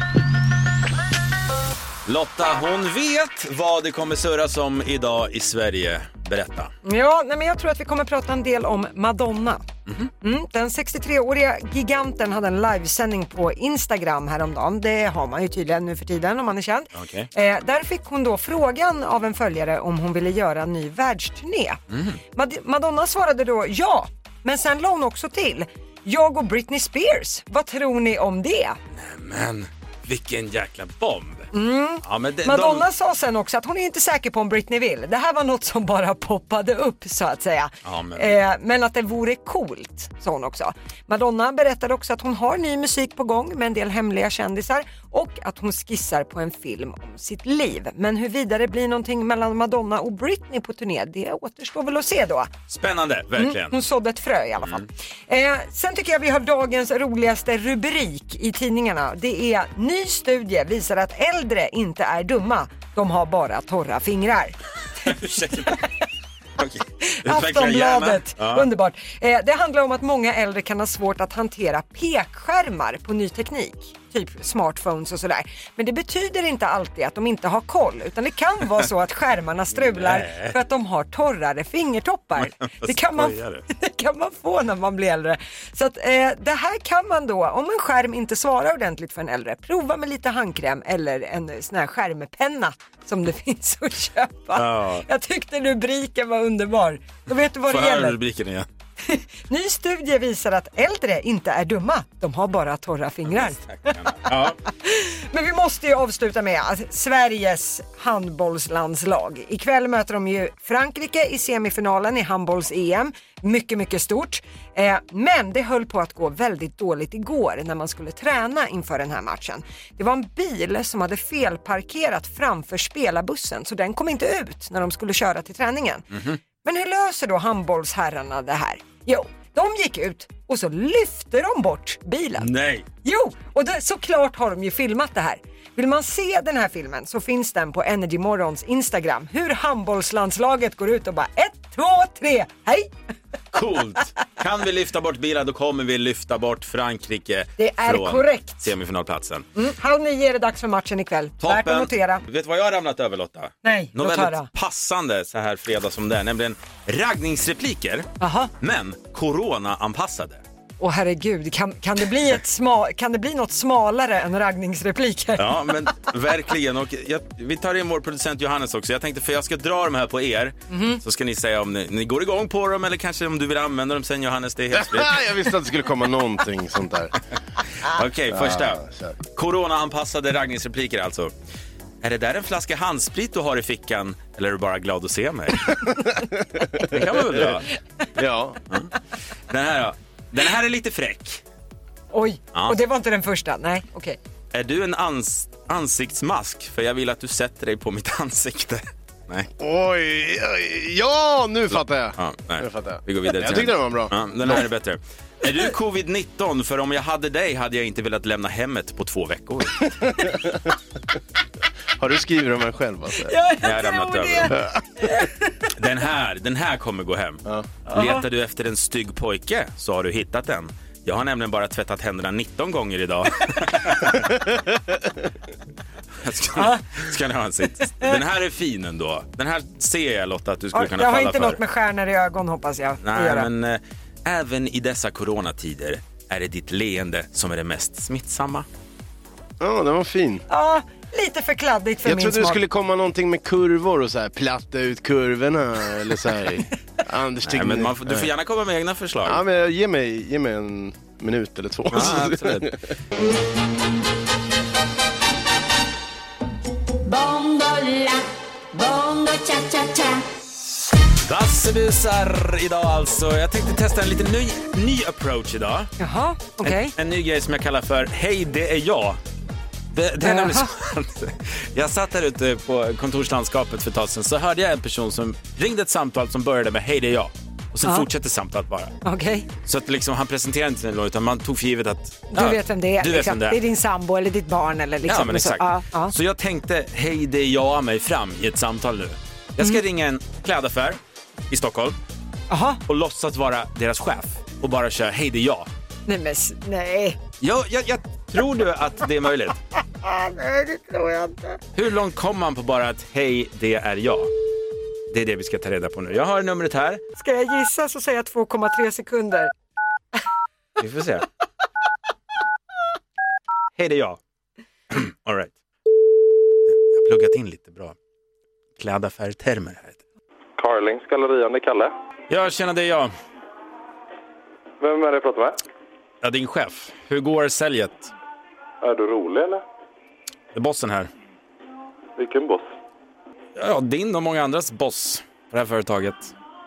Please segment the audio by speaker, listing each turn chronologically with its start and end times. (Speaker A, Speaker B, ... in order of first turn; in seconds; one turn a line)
Speaker A: 2.0-6.7
Speaker B: 6.8-9.6
Speaker B: 10.2-21.8
Speaker A: 16.9-17.3
Speaker A: 21.9-22.2
Speaker B: 22.3-28.8
Speaker A: 28.9-32.8
Speaker B: 31.5-52.5
Speaker A: 37.8-38.4
Speaker A: 52.7-53.7
Speaker B: 53.4-64.6
Speaker A: 65.0-65.8
Speaker A: 66.6-68.7
Speaker B: 67.0-98.2
Speaker A: 79.8-80.5
Speaker A: 82.4-83.7
Speaker A: 94.5-95.0
Speaker A: 97.7-98.7
Speaker B: 99.0-103.6
Speaker A: 103.3-104.6
Speaker B: 104.2-126.0
Speaker A: 126.1-126.4
Speaker B: 126.6-132.5
Speaker A: 132.4-132.8
Speaker B: 133.0-142.9
Speaker A: 143.5-149.5
Speaker B: 147.6-148.7
Speaker B: 149.5-152.2
Speaker A: 151.4-158.1
Speaker B: 153.6-154.5
Speaker B: 158.2-158.5
Speaker A: 158.6-160.4
Speaker B: 160.8-165.7
Speaker A: 165.3-175.2
Speaker B: 170.7-171.0
Speaker C: 174.8-177.2
Speaker A: 177.8-181.3
Speaker C: 178.3-179.2
Speaker A: 182.0-185.8
Speaker C: 186.1-186.8
Speaker A: 186.9-187.7
Speaker C: 188.2-188.6
Speaker A: 189.5-191.4
Speaker B: 192.1-194.2
Speaker A: 194.5-199.5
Speaker C: 199.6-204.6
Speaker A: 201.7-209.8
Speaker C: 210.2-210.6
Speaker C: 212.0-213.3
Speaker B: 213.2-215.5
Speaker A: 213.6-214.5
Speaker A: 215.8-224.2
Speaker B: 217.9-218.2
Speaker A: 226.2-231.6
Speaker B: 226.6-226.8
Speaker B: 230.7-233.5
Speaker A: 233.0-238.7
Speaker C: 239.6-240.4
Speaker B: 240.5-242.6
Speaker C: 242.0-248.3
Speaker A: 247.4-249.4
Speaker C: 249.2-252.8
Speaker A: 251.9-252.7
Speaker D: 257.0-260.2
Speaker A: 261.2-265.9
Speaker B: 266.0-266.9
Speaker A: 266.6-269.2
Speaker A: 269.9-278.9
Speaker B: 270.2-270.7
Speaker B: 279.0-279.5
Speaker A: 279.6-283.6
Speaker B: 282.3-286.1
Speaker A: 285.1-291.0
Speaker A: 291.5-292.0
Speaker B: 292.5-292.8
Speaker A: 292.9-295.7
Speaker B: 296.1-297.2
Speaker A: 297.4-299.6
Speaker B: 300.0-301.6
Speaker A: 301.7-304.3
Speaker A: 305.1-307.0
Speaker B: 307.2-309.5
Speaker A: 310.8-311.2
Speaker A: 313.8-314.2
Speaker A: 314.9-315.5
Speaker A: 316.9-317.9
Speaker A: 318.8-320.0
Speaker E: 320.6-321.9
Speaker A: 322.3-323.1
Speaker E: 324.8-325.6
Speaker A: 326.2-328.1
Speaker E: 328.8-329.6
Speaker A: 330.5-331.1
Speaker E: 332.2-332.7
Speaker A: 333.6-336.3